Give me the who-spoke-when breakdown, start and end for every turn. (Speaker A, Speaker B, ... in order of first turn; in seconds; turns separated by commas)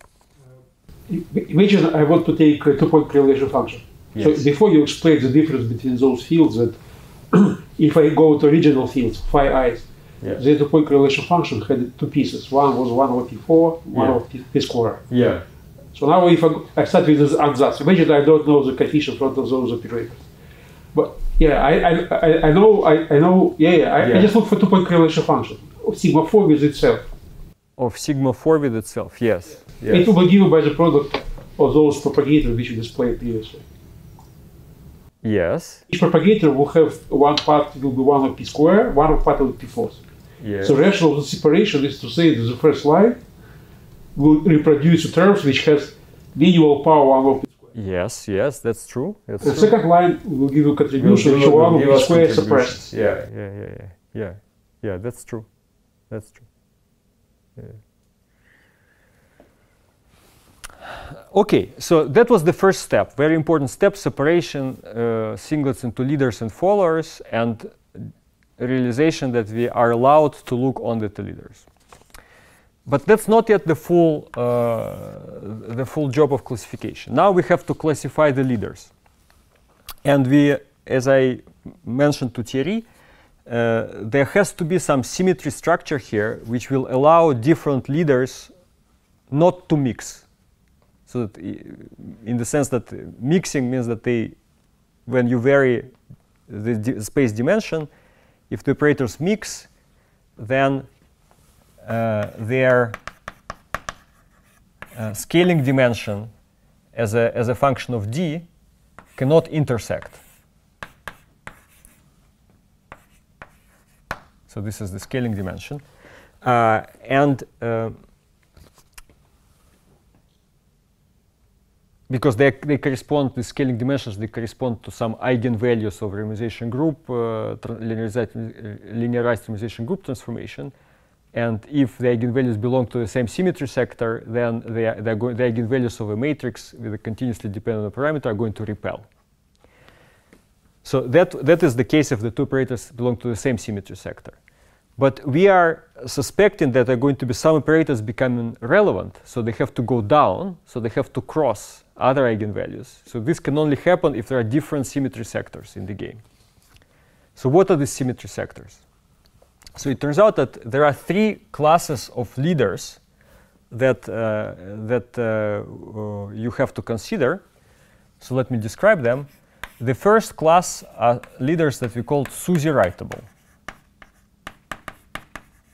Speaker A: 1.1-6.8, Speaker B: 4.1-4.5, Speaker A: 7.3-15.2, Speaker B: 13.9-14.2, Speaker B: 15.1-15.4, Speaker A: 15.9-20.2, Speaker A: 20.9-27.1, Speaker B: 24.0-24.3, Speaker B: 27.8-30.1, Speaker A: 29.9-33.6, Speaker B: 35.2-35.8, Speaker A: 35.9-40.0, Speaker B: 40.4-40.8, Speaker A: 40.6-43.2, Speaker A: 44.1-47.6, Speaker B: 47.7-49.8, Speaker A: 49.4-52.9, Speaker B: 51.0-55.5, Speaker B: 56.1-56.5, Speaker B: 61.3-71.7, Speaker B: 72.9-78.9, Speaker B: 80.0-82.9, Speaker B: 83.5-88.5, Speaker B: 89.3-90.3, Speaker B: 91.1-94.4, Speaker B: 95.1-95.9, Speaker B: 96.5-97.9, Speaker B: 98.5-99.7, Speaker B: 100.4-100.9, Speaker B: 101.8-103.0, Speaker B: 105.0-106.3, Speaker B: 106.9-108.5, Speaker B: 109.2-110.2, Speaker B: 114.5-115.8, Speaker B: 116.4-118.0, Speaker B: 122.1-130.7, Speaker B: 131.3-139.1, Speaker B: 140.8-144.4, Speaker B: 145.0-156.2, Speaker B: 157.4-158.8, Speaker B: 159.8-163.0, Speaker B: 163.7-167.4, Speaker B: 168.2-169.3, Speaker B: 169.8-173.3